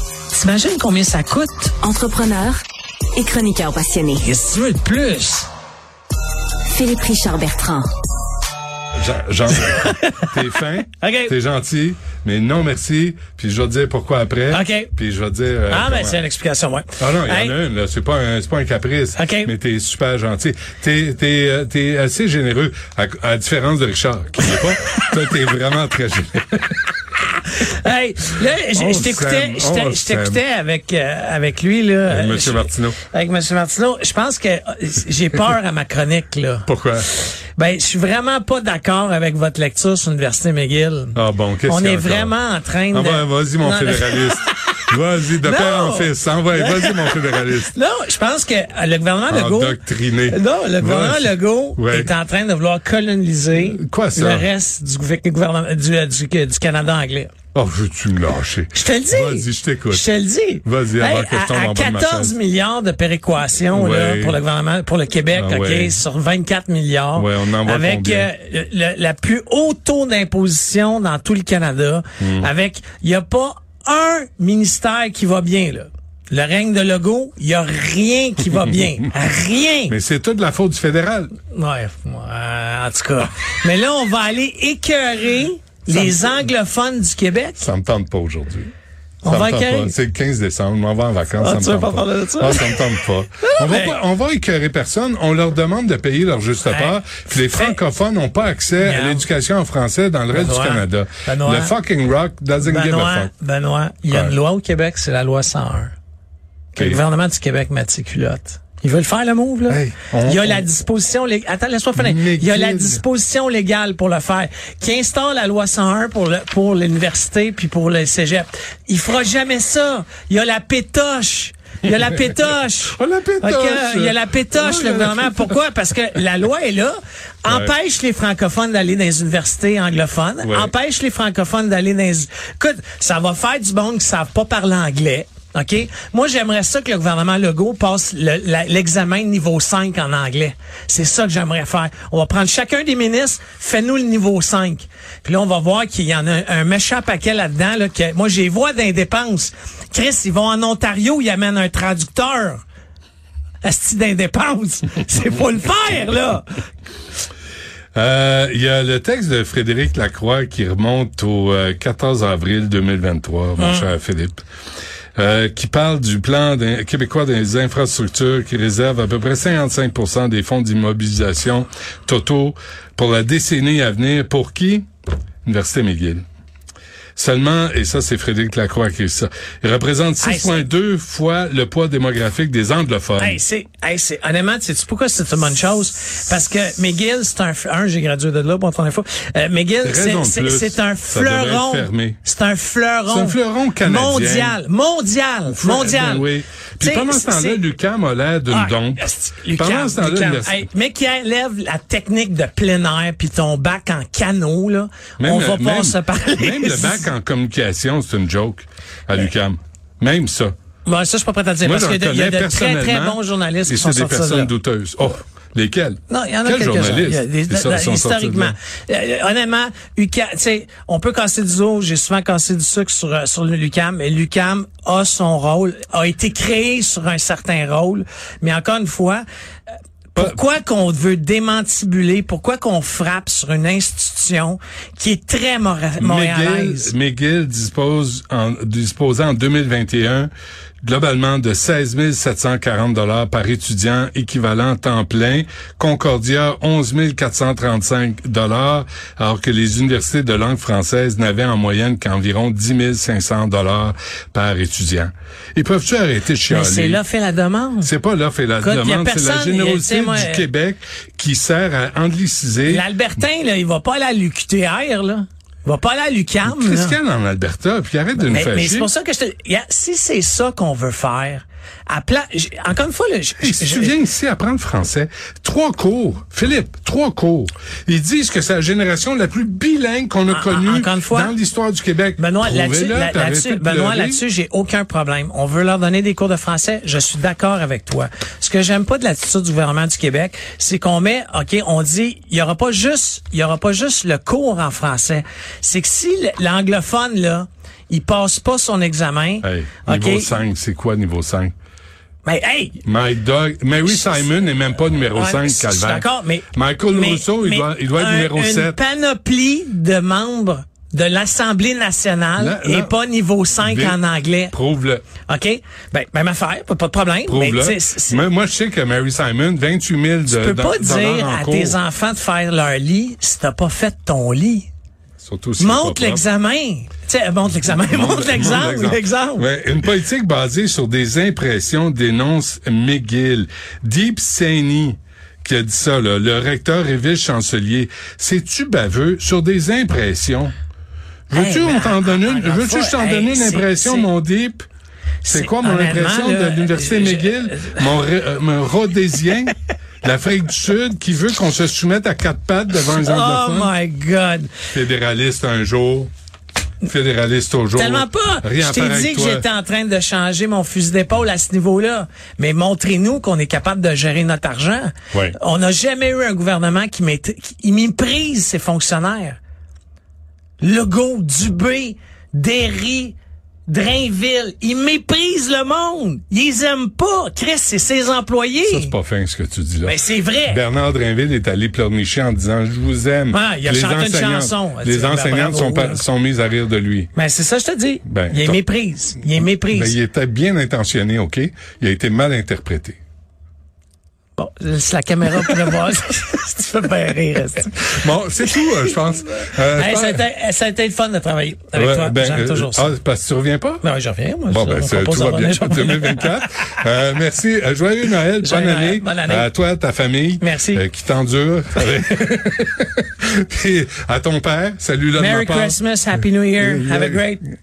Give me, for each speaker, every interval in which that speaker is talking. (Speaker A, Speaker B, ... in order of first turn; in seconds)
Speaker A: 0.3-1.8, 4.2-5.5, 9.6-10.3, 11.0-11.3, 14.5-14.9, 15.7-17.6, 19.1-19.5, 24.6-25.0, 27.5-44.8, 45.4-57.3, 58.7-80.0, 81.5-87.7, 89.2-90.0, 91.4-94.0, 96.7-97.8, 98.8-99.3, 100.3-101.8, 102.6-105.9, 106.7-152.6, 153.6-156.6, 163.6-163.9, 180.2-180.7, 183.2-196.3, 196.8-197.7, 198.5-207.1, 210.8-214.5, 216.1-229.2, 230.1-236.9, 256.5-257.9, 258.6-260.4, 262.7-267.0, 268.2-274.0, 280.3-281.4, 282.2-300.4, 302.2-302.8, 303.8-304.5, 305.1-314.5, 315.2-318.3, 320.3-324.7, 325.6-329.5, 341.3-344.1, 345.2-347.9, 352.9-354.6, 357.8-369.4, 370.6-378.9, 379.9-380.6, 383.3-386.0, 387.1-390.0, 394.4-398.1, 398.6-398.9, 399.7-402.9, 403.8-406.4, 408.4-409.5, 410.4-410.8, 415.1-417.4
Speaker B: 1.8-2.6, 3.1-4.2, 6.7-7.9
Speaker C: 8.9-16.2, 17.0-26.7, 28.7-30.4, 32.1-33.0, 36.7-37.1, 41.1-42.4, 42.9-47.7, 49.3-52.1, 53.6-54.5, 57.5-60.1, 60.6-62.4, 63.7-64.4, 65.3-66.0, 67.2-68.3, 72.2-72.5, 79.9-81.3, 87.6-88.7, 89.2-103.3, 104.1-104.4, 109.7-110.7, 112.0-113.0, 122.9-125.5, 127.5-127.7, 130.4-130.7, 157.9-164.4, 165.2-174.9, 175.4-176.2, 177.2-183.4, 189.8-192.2, 193.1-194.6, 195.5-200.6, 205.2-210.5, 211.6-218.5, 236.0-240.3, 240.8-257.0, 257.8-262.8, 266.4-268.9, 273.4-284.2, 299.4-301.6, 302.8-308.8, 312.4-313.0, 313.6-314.0, 314.5-315.0, 317.3-321.8, 325.2-326.2, 327.7-340.5, 341.3-344.7, 345.3-353.7, 354.7-356.1, 356.8-359.4, 378.7-387.1, 388.1-388.6, 389.7-393.0, 397.9-400.2, 401.8-403.8, 404.5-415.8, 416.6-417.5